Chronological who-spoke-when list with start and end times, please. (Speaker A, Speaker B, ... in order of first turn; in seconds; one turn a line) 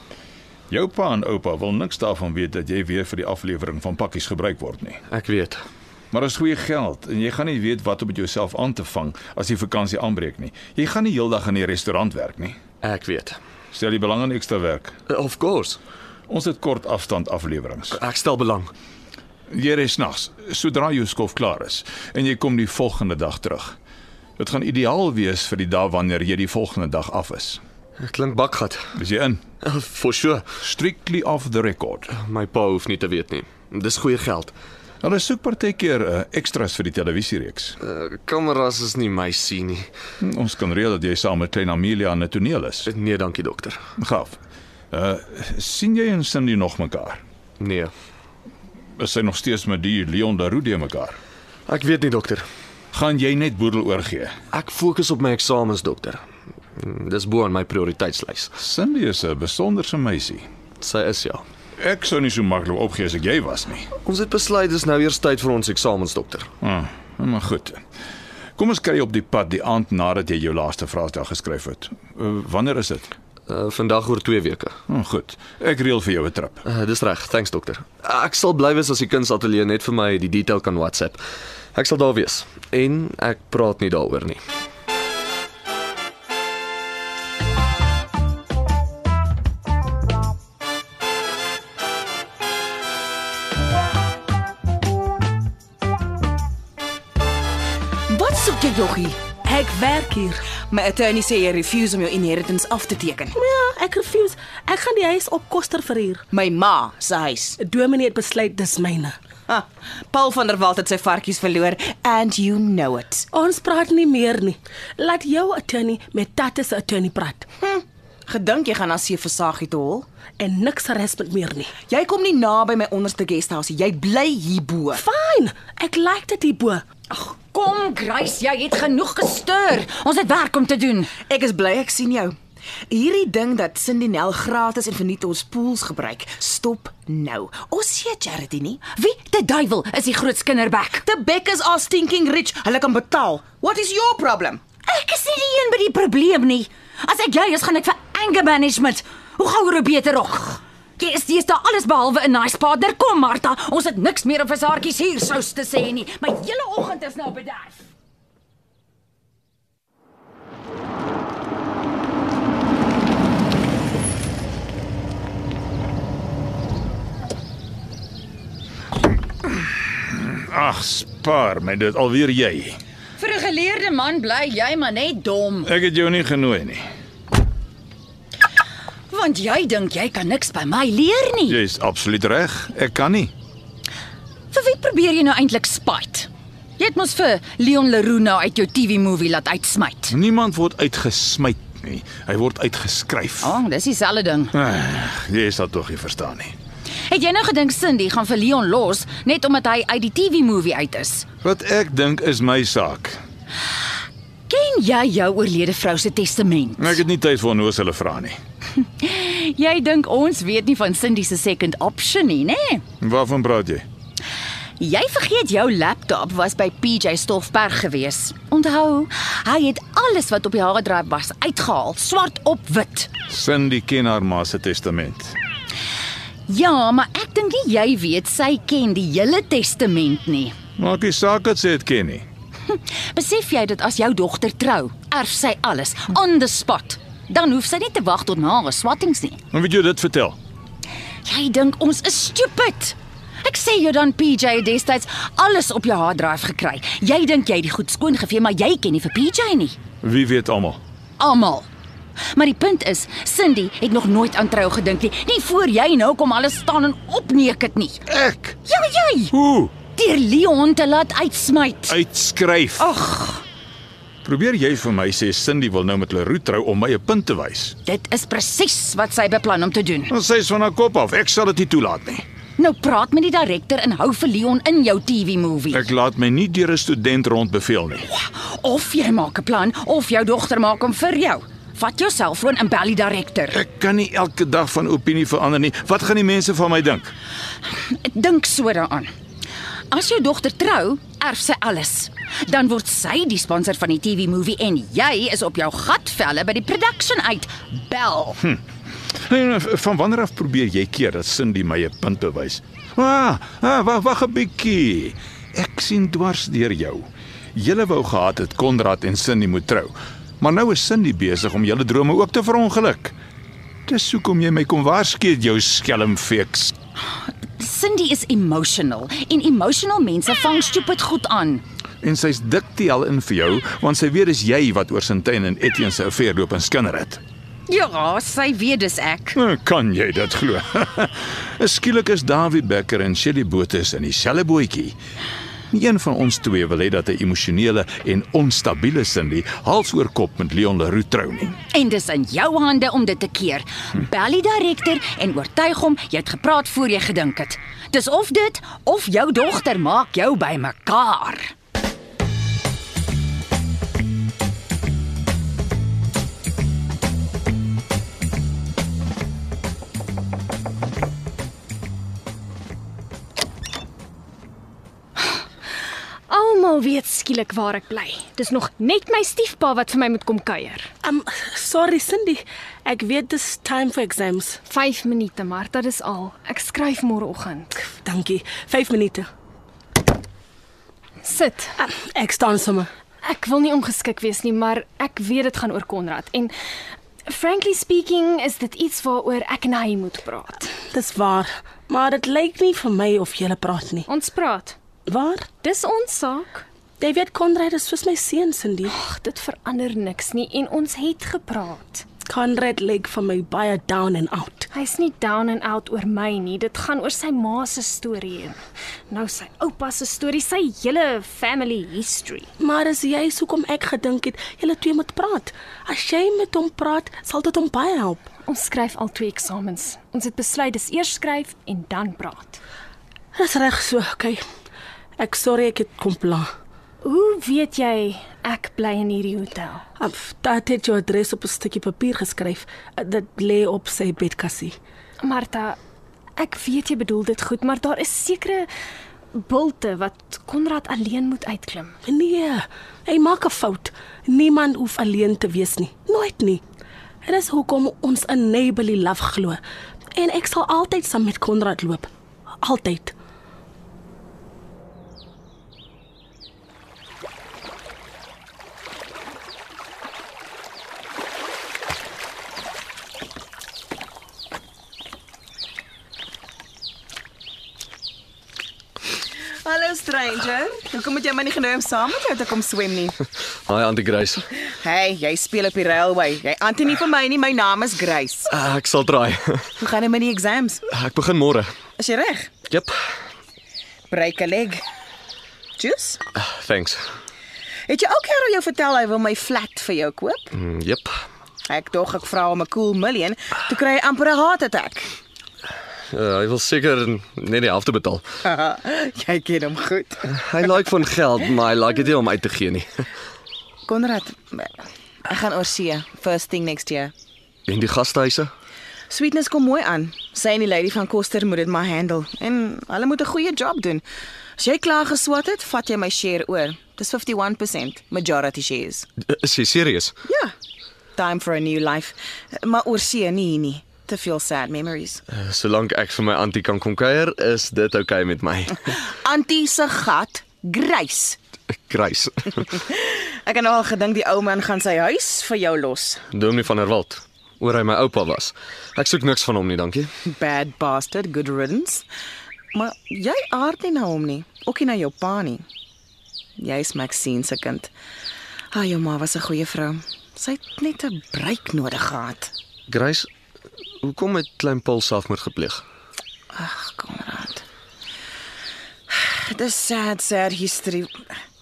Speaker A: 0.7-5.0
Speaker B: 5.1-5.6
Speaker A: 6.1-12.6
Speaker B: 12.8-13.4
Speaker A: 13.7-14.9
Speaker B: 15.1-15.8
Speaker A: 16.3-18.0
Speaker B: 17.9-18.7
Speaker A: 19.5-23.8
Speaker A: 24.4-27.6
Speaker B: 28.0-28.9
Speaker A: 28.9-29.4
Speaker B: 29.6-30.5
Speaker A: 30.6-32.1
Speaker B: 32.1-34.5
Speaker A: 35.0-37.8
Speaker B: 37.8-39.9
Speaker A: 40.2-42.9
Speaker B: 42.9-43.8
Speaker A: 44.0-44.4
Speaker A: 44.9-47.2
Speaker B: 47.6-47.9
Speaker A: 49.0-51.2
Speaker B: 51.7-52.5
Speaker A: 52.9-54.3
Speaker B: 54.5-56.2
Speaker B: 56.8-58.5
Speaker A: 58.6-60.5
Speaker B: 60.8-61.4
Speaker A: 61.8-63.9
Speaker B: 64.0-66.5
Speaker A: 66.6-67.8
Speaker A: 68.6-73.1
Speaker B: 73.5-74.7
Speaker A: 74.9-76.6
Speaker B: 76.7-81.2
Speaker B: 81.7-84.4
Speaker C: 98.1-99.2
Speaker D: 99.4-100.4
Speaker C: 100.5-103.4
Speaker D: 103.3-106.2
Speaker C: 106.3-107.6
Speaker D: 107.6-109.2
Speaker C: 109.5-113.3
Speaker D: 113.3-117.5
Speaker C: 117.6-120.0
Speaker D: 120.4-121.7
Speaker C: 121.9-125.0
Speaker D: 124.9-126.8
Speaker E: 127.1-131.1
Speaker C: 131.2-132.3
Speaker C: 132.9-138.8
Speaker E: 138.9-141.0
Speaker C: 141.0-144.6
Speaker E: 144.8-157.8
Speaker A: 170.1-172.8
Speaker E: 173.2-175.7
Speaker A: 175.6-176.8
Speaker E: 179.1-181.6
Speaker A: 181.5-183.3
Speaker E: 184.5-190.1
Speaker A: 190.1-193.6
Speaker E: 193.4-194.5
Speaker A: 194.5-196.5
Speaker E: 197.1-201.3
Speaker A: 201.4-203.2
Speaker E: 204.5-207.0
Speaker A: 206.8-208.4
Speaker E: 208.9-212.8
Speaker A: 213.0-213.8
Speaker E: 214.8-223.1
Speaker A: 223.3-225.4
Speaker E: 226.5-230.6
Speaker A: 230.8-232.2
Speaker E: 232.7-239.4
Speaker A: 239.5-240.4
Speaker E: 241.2-249.8
Speaker A: 250.0-250.8
Speaker E: 251.2-251.7
Speaker E: 252.3-258.0
Speaker A: 258.1-258.6
Speaker E: 258.6-259.3
Speaker A: 259.3-259.7
Speaker E: 259.9-261.9
Speaker A: 261.9-262.9
Speaker E: 262.8-263.4
Speaker A: 264.2-267.8
Speaker E: 267.8-270.1
Speaker A: 270.1-272.2
Speaker E: 272.6-275.8
Speaker A: 275.7-278.1
Speaker E: 278.1-283.6
Speaker A: 283.5-287.1
Speaker E: 287.8-289.1
Speaker E: 289.9-298.4
Speaker A: 299.1-313.1
Speaker A: 313.9-316.7
Speaker E: 317.2-321.6
Speaker A: 322.0-327.2
Speaker E: 327.7-329.4
Speaker A: 329.3-334.9
Speaker A: 335.7-341.6
Speaker E: 341.7-351.5
Speaker F: 366.3-370.9
Speaker D: 371.0-374.6
Speaker F: 374.7-377.8
Speaker D: 377.8-379.3
Speaker F: 381.2-381.7
Speaker D: 381.8-382.9
Speaker F: 383.2-386.5
Speaker F: 387.3-390.8
Speaker D: 390.9-394.1
Speaker F: 394.1-394.8
Speaker D: 395.1-395.5
Speaker F: 395.5-396.6
Speaker D: 397.0-398.9
Speaker F: 398.9-402.0
Speaker D: 402.3-404.7
Speaker F: 404.7-408.6
Speaker F: 409.1-412.5
Speaker D: 412.6-418.3
Speaker F: 418.4-422.6
Speaker D: 423.3-424.4
Speaker D: 425.2-426.5
Speaker F: 427.0-429.9
Speaker D: 430.0-434.8
Speaker F: 435.2-435.8
Speaker F: 436.4-438.7
Speaker F: 439.4-442.0
Speaker D: 442.0-446.6
Speaker D: 447.2-449.6
Speaker D: 450.1-452.1
Speaker D: 452.6-453.1
Speaker C: 469.6-473.2
Speaker B: 473.7-474.4
Speaker C: 474.8-478.5
Speaker B: 478.5-479.7
Speaker C: 479.8-480.8
Speaker B: 480.9-481.7
Speaker C: 482.0-482.5
Speaker B: 482.7-483.0
Speaker C: 484.1-484.8
Speaker C: 485.8-486.2
Speaker B: 486.4-487.0
Speaker C: 487.9-490.5
Speaker B: 490.5-491.1
Speaker C: 491.7-495.1
Speaker B: 496.1-498.2
Speaker C: 498.4-500.2
Speaker B: 500.3-503.0
Speaker C: 503.9-504.7
Speaker C: 505.3-507.1
Speaker B: 507.7-508.5
Speaker C: 509.1-514.0
Speaker C: 514.6-519.1
Speaker B: 519.2-520.1
Speaker C: 520.3-520.5
Speaker C: 521.1-525.2
Speaker B: 525.3-529.0
Speaker C: 529.1-531.4
Speaker B: 531.7-532.8
Speaker C: 532.8-536.2
Speaker B: 536.3-540.1
Speaker C: 540.3-542.0
Speaker C: 542.7-545.6
Speaker C: 546.6-547.9
Speaker C: 548.7-552.5
Speaker B: 552.9-553.3
Speaker B: 554.0-555.8
Speaker C: 556.5-557.6
Speaker C: 559.1-561.1